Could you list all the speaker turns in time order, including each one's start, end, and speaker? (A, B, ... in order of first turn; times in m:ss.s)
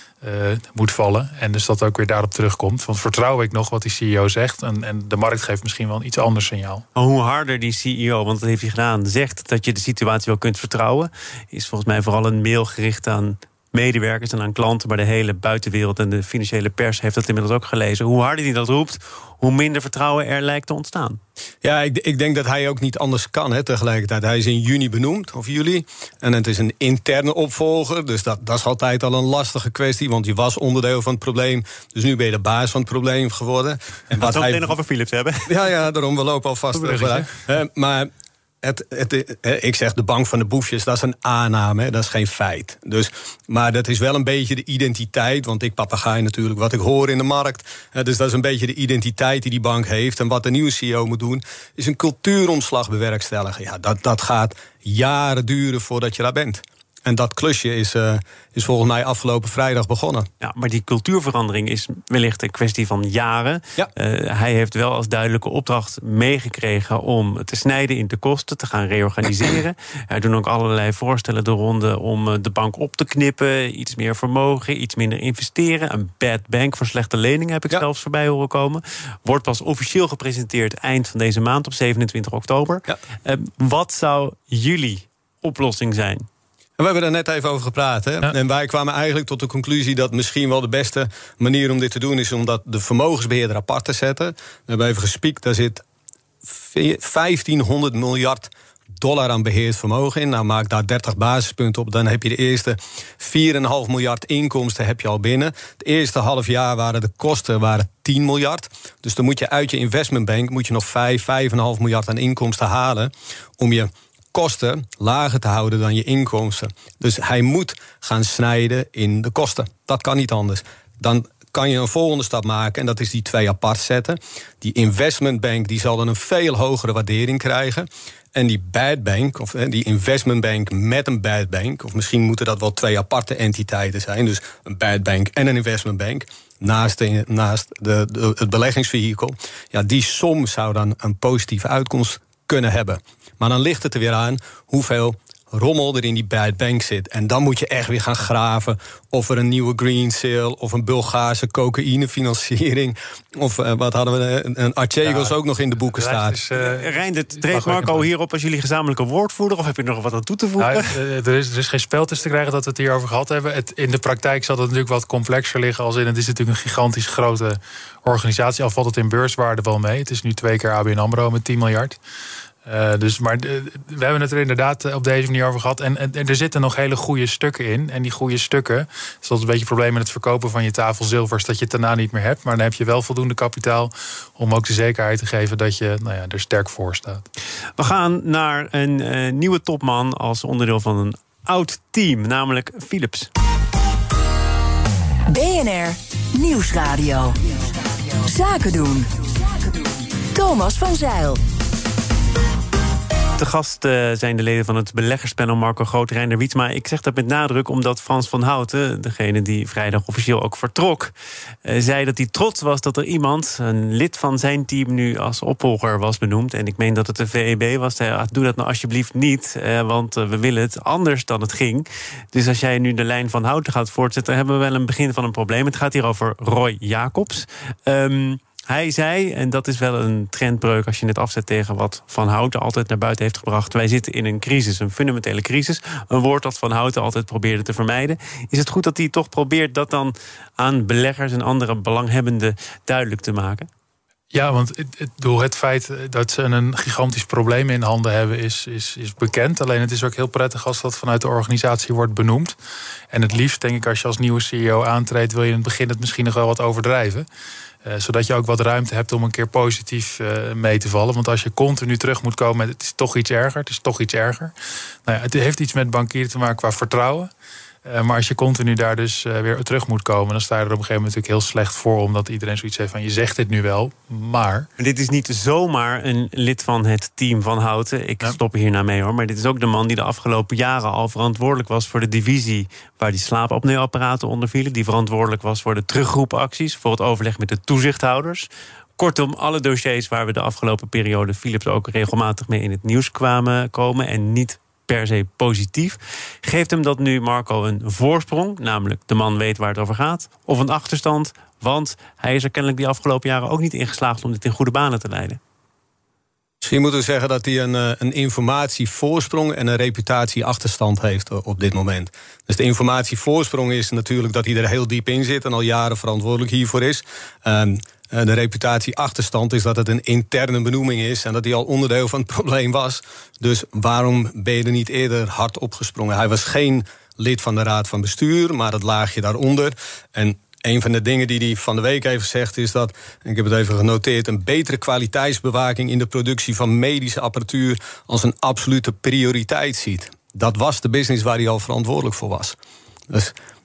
0:00.2-0:06.8 A
0:07.0-0:21.2 B
0:21.6-0:34.7 C
0:34.2-0:35.5 B
0:35.5-0:38.1 C
0:36.7-0:37.3 B
0:38.6-1:00.3 C
1:00.4-1:26.3 B
1:26.8-1:35.8 C
1:36.6-2:36.4 C
2:35.0-2:35.4 A
2:35.9-2:36.9 A
2:36.5-2:40.9 B
2:37.5-2:38.0 A
2:40.6-2:52.0 A
2:52.7-3:07.2 A
3:07.8-3:13.3 B
3:15.3-3:17.4 D
3:18.2-3:21.4 D
3:23.4-3:31.1 B
3:31.6-4:03.7 B
4:04.3-4:12.6 A
4:13.1-4:17.3 A
4:17.8-4:24.5 A
4:25.1-4:27.3 A
4:27.9-4:34.7 A
4:34.8-5:05.4 B
5:06.6-5:42.6 C